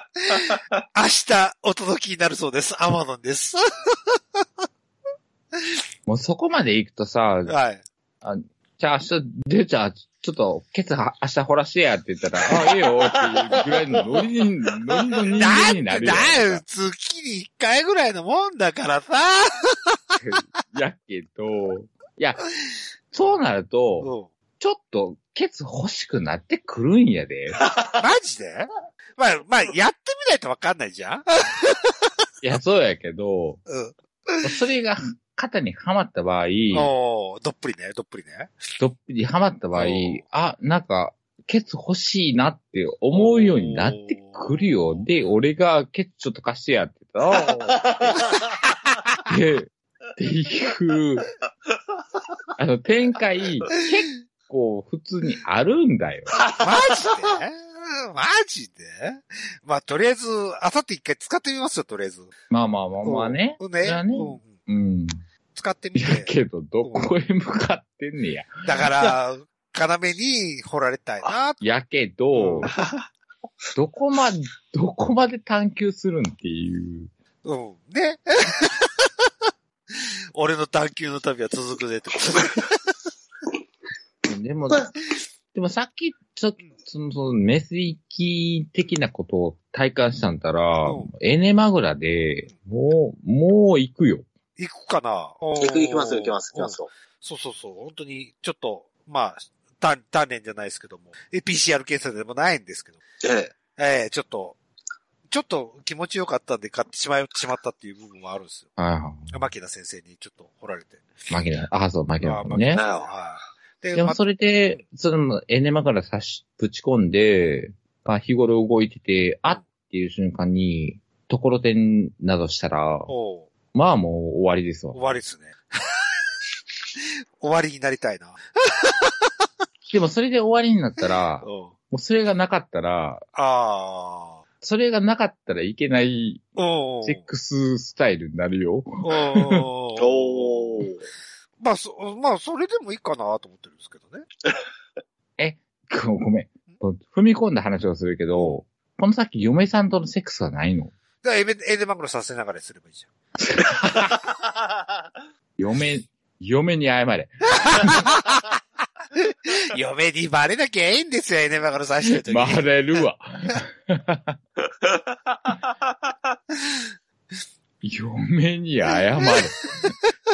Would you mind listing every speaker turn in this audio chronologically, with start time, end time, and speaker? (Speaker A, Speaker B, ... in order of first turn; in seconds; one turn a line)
Speaker A: 0.3-4.4
Speaker B: 6.1-7.5
Speaker A: 7.5-7.8
Speaker B: 8.2-16.6
Speaker C: 13.2-13.6
Speaker C: 14.9-15.5
Speaker A: 15.4-20.2
Speaker B: 20.2-22.4
Speaker B: 23.1-27.6
Speaker A: 24.0-24.3
Speaker A: 28.0-32.0
Speaker B: 32.4-33.6
Speaker A: 33.7-34.5
Speaker B: 34.4-36.9
Speaker A: 36.7-38.5
Speaker B: 38.8-48.3
Speaker A: 39.8-40.2
Speaker A: 43.1-45.0
Speaker C: 47.4-48.4
Speaker B: 49.3-51.3
Speaker B: 52.6-56.4
Speaker C: 56.4-56.7
Speaker A: 56.6-62.3
Speaker B: 62.5-65.2
Speaker A: 63.0-64.6
Speaker A: 65.5-67.1
Speaker B: 66.0-68.5
Speaker A: 68.7-71.6
Speaker B: 71.6-72.7
Speaker A: 72.3-72.7
Speaker C: 72.7-73.0
Speaker B: 73.8-77.1
Speaker A: 77.4-79.1
Speaker A: 79.9-82.9
Speaker B: 84.2-85.0
Speaker B: 85.5-94.3
Speaker A: 90.8-91.1
Speaker A: 94.6-103.0
Speaker C: 95.6-96.9
Speaker C: 103.2-103.5
Speaker A: 103.8-104.6
Speaker A: 105.3-108.7
Speaker B: 108.8-109.4
Speaker A: 109.3-111.1
Speaker B: 111.3-112.8
Speaker A: 112.2-114.2
Speaker C: 112.8-113.1
Speaker B: 114.0-123.1
Speaker A: 123.1-123.5
Speaker B: 123.7-125.1
Speaker A: 124.9-126.0
Speaker A: 127.0-129.3
Speaker B: 129.9-133.2
Speaker A: 131.4-131.7
Speaker A: 133.3-134.4
Speaker B: 134.6-139.7
Speaker A: 136.6-137.3
Speaker A: 139.0-140.9
Speaker C: 140.0-141.0
Speaker A: 141.6-144.3
Speaker B: 145.4-150.9
Speaker A: 151.2-153.1
Speaker B: 153.4-154.2
Speaker C: 154.3-154.9
Speaker B: 155.6-158.1
Speaker A: 157.6-158.5
Speaker A: 159.2-162.7
Speaker B: 162.2-164.4
Speaker C: 164.8-165.5
Speaker B: 167.8-169.7